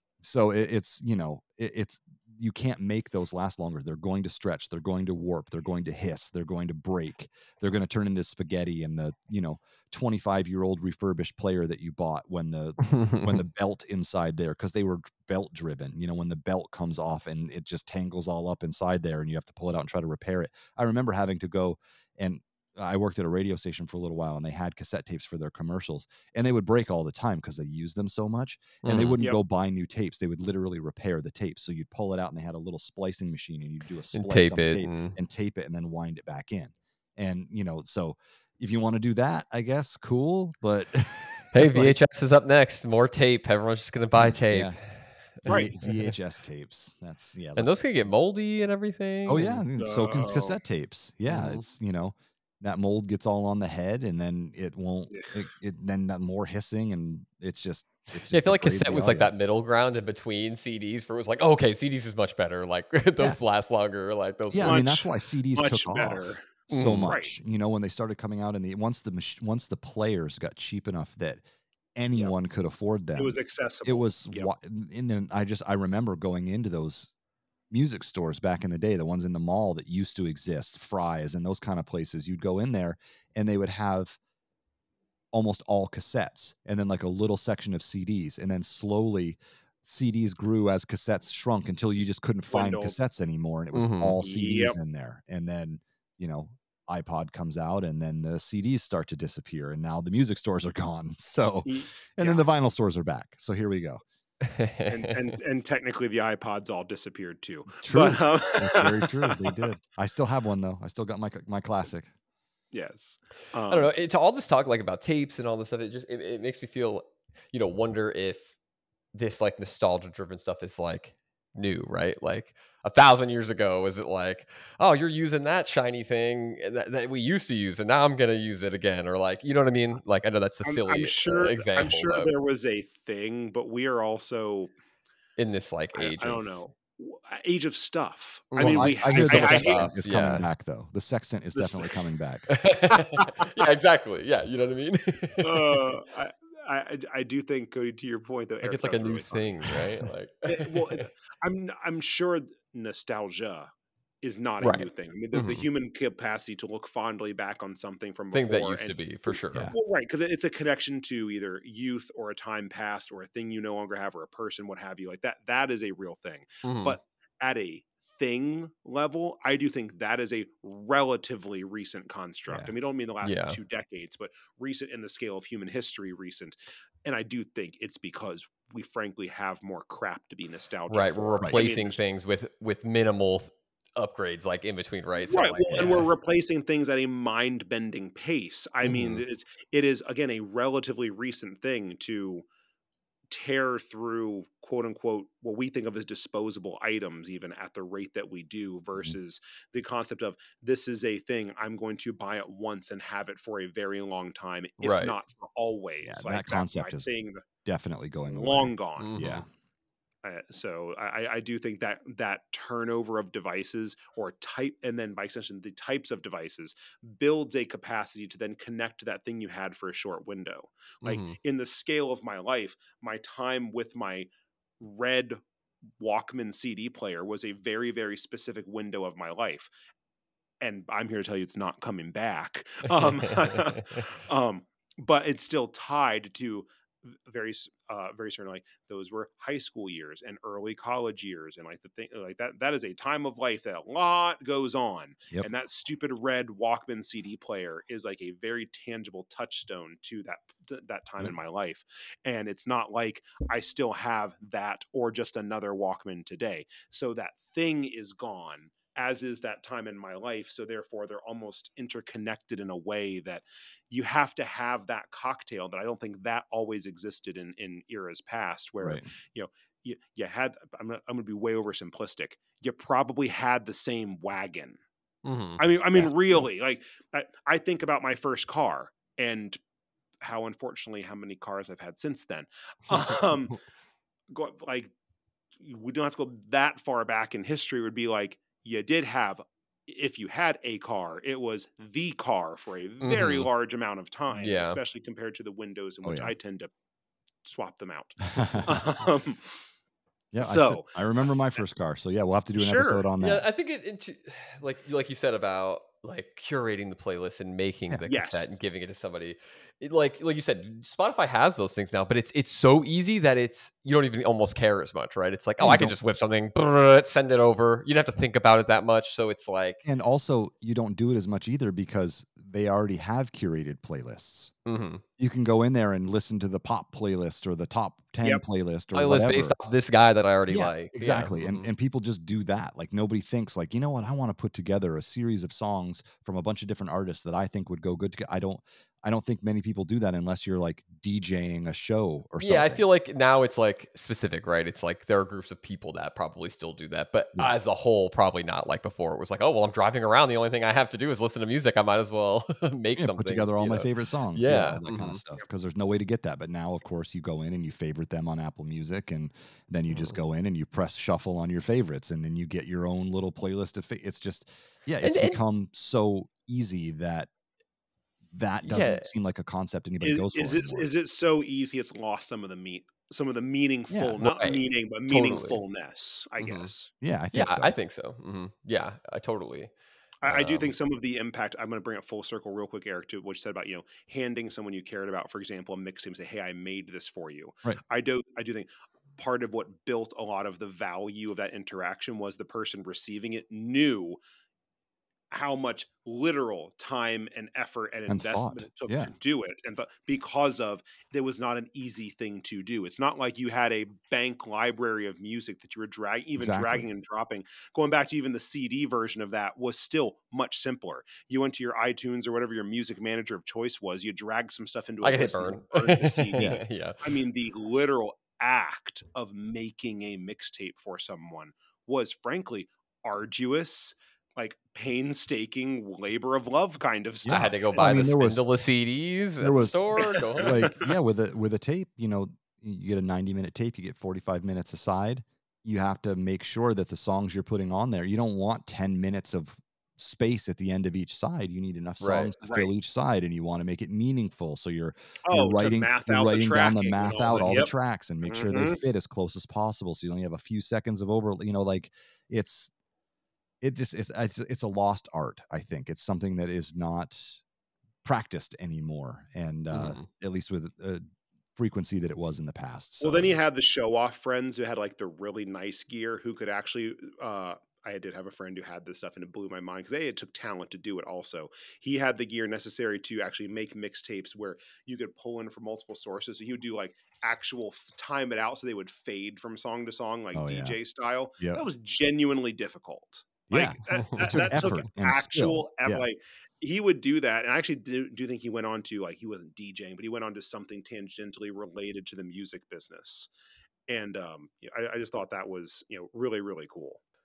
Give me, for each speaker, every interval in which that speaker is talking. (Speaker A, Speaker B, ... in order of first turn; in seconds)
Speaker A: 0.2-41.9, 44.1-44.8, 45.4-47.9, 49.3-59.3, 64.5-71.4, 72.0-73.3, 73.9-77.1, 77.7-84.2, 85.3-104.0, 107.7-112.1, 138.6-142.5, 172.5-172.7, 181.4-181.7, 185.7-186.0, 206.0-207.1, 207.6-209.5, 296.0-296.3, 298.3-298.8, 300.3-303.4, 315.6-316.0, 319.8-324.5, 325.2-329.6, 330.5-342.8, 352.9-367.3, 368.3-370.9, 373.9-374.2, 377.0-377.7, 398.1-399.1, 406.4-406.9, 427.2-428.4, 429.4-452.7, 453.6-457.4, 458.0-461.0, 461.6-463.3, 480.3-480.8, 481.4-481.6, 483.5-486.0
Speaker B: 12.9-13.3, 28.8-29.2, 34.1-35.1, 41.5-46.1, 47.6-49.6, 51.3-51.6, 58.3-64.9, 66.7-67.1, 93.7-94.2, 104.4-105.1, 113.7-118.5, 119.1-132.3, 135.4-136.6, 138.5-140.4, 142.5-145.8, 148.6-151.1, 154.6-155.6, 158.3-159.7, 166.6-167.0, 173.2-173.6, 180.9-186.1, 188.8-189.2, 204.8-205.1, 209.0-209.4, 221.0-221.4, 232.9-233.4, 275.2-275.6, 293.0-293.5, 294.3-294.8, 303.2-319.8, 324.6-325.0, 328.9-331.7, 342.4-355.2, 359.9-360.1, 365.0-365.4, 368.6-369.1, 374.2-375.6, 376.4-376.7, 377.3-379.7, 380.2-380.6, 415.0-417.0, 427.2-430.7, 442.0-442.3, 459.7-460.1
Speaker C: 45.5-45.7, 49.8-50.6, 55.1-55.4, 64.6-66.5, 67.0-67.3, 73.2-74.5, 92.5-92.9, 94.2-94.8, 101.6-102.5, 104.9-109.5, 112.7-113.9, 130.6-134.7, 135.9-139.9, 141.5-141.9, 142.9-143.2, 145.4-149.8, 150.4-153.7, 154.2-182.2, 185.3-192.4, 193.3-207.4, 208.3-209.2, 210.2-224.3, 224.8-225.4, 226.0-229.7, 230.6-274.8, 275.6-279.6, 280.2-283.6, 284.3-284.9, 285.6-296.7, 297.4-299.6, 300.4-301.0, 302.6-303.1, 308.1-308.5, 370.0-376.9, 380.2-394.2, 395.3-428.2, 430.0-430.9, 442.4-442.7, 445.3-447.7, 448.2-448.8, 463.0-493.3, 493.9-497.0